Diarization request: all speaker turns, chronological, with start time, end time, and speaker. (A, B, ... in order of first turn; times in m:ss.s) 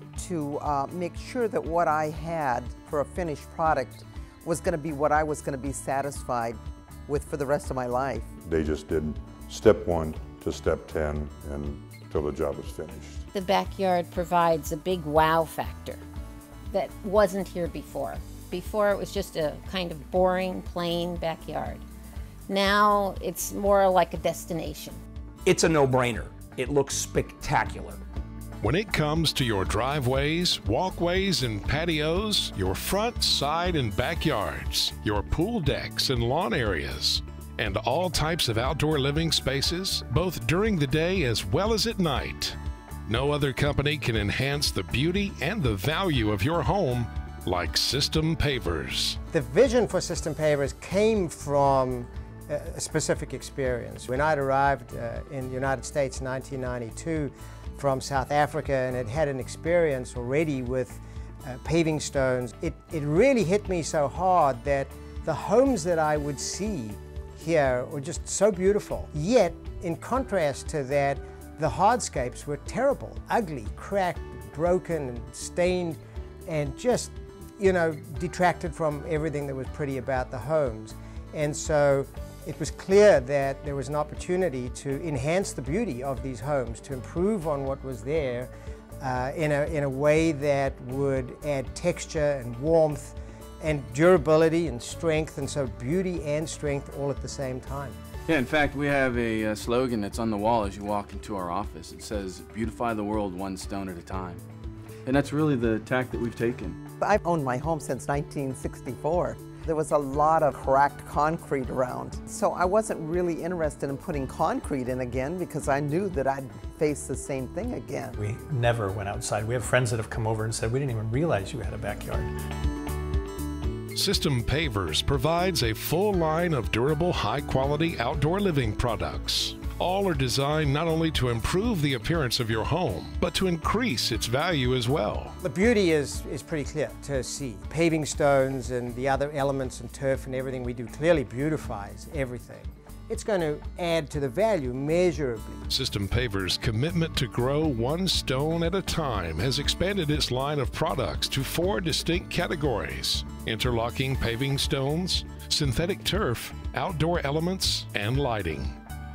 0:00.2-0:08.3 A
0:08.4-0:13.2 B
0:13.3-0:16.0 C
0:16.7-0:21.8 C
0:22.5-0:25.0 C
0:25.4-0:28.0 D
0:28.6-0:49.2 E
0:49.3-1:38.0 F
1:38.3-1:44.4 G
1:45.0-1:46.8 G
1:47.0-1:58.1 A
1:58.2-2:02.3 H
2:03.9-2:15.4 E
2:15.4-2:25.7 F
2:25.7-2:38.7 E